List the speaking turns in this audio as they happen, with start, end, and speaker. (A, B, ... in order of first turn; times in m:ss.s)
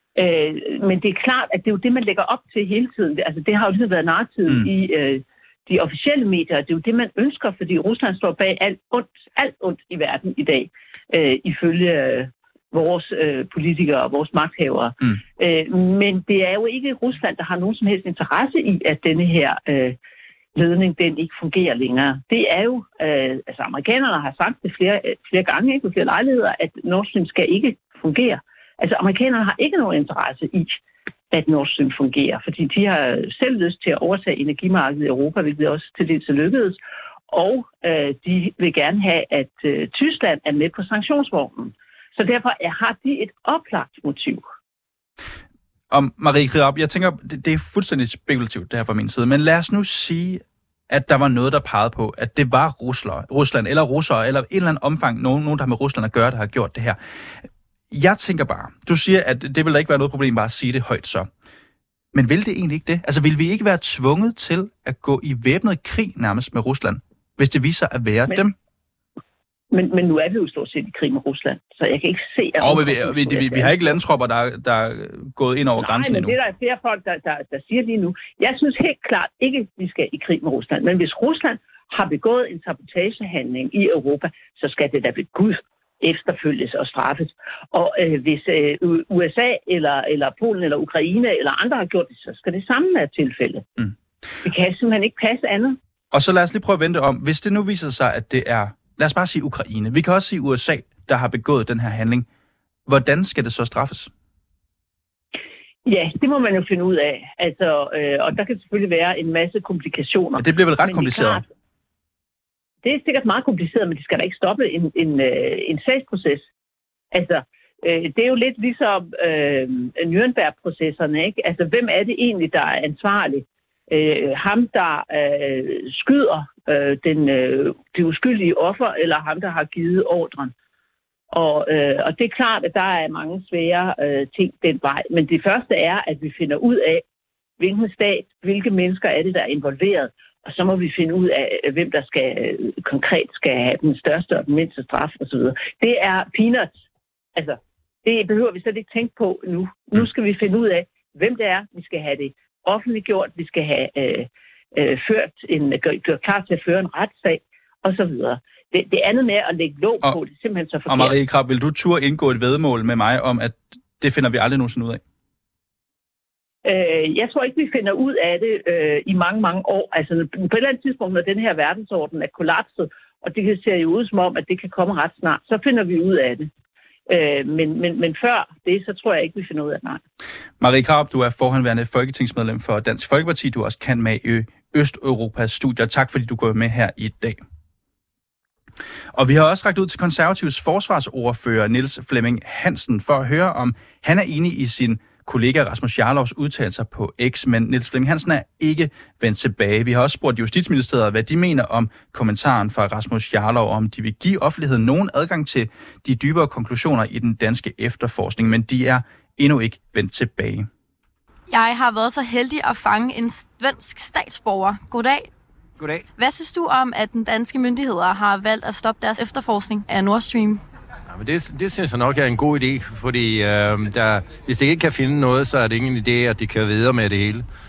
0:00.2-0:20.0 A
0:20.6-0:30.8 A
0:31.3-0:44.4 A
0:45.9-0:57.0 B
0:57.9-1:01.3 B
1:02.1-1:08.6 B
1:09.7-1:14.0 A
1:12.6-1:16.4 B
1:15.8-1:33.6 A
1:34.4-1:35.8 A
1:36.1-1:42.3 B
1:42.9-1:44.1 B
1:45.8-1:51.5 A
1:50.4-1:51.4 B
1:52.8-1:56.5 A
1:57.1-2:10.5 A
2:11.3-2:17.0 A
2:17.6-2:26.8 A
2:27.4-2:41.2 A
2:40.9-2:45.0 B
2:46.6-2:56.5 A
2:57.1-3:00.0 A
3:00.6-3:07.4 B
3:09.1-3:30.7 B
3:31.5-3:35.3 C
3:36.2-3:40.6 C
3:41.1-3:47.5 D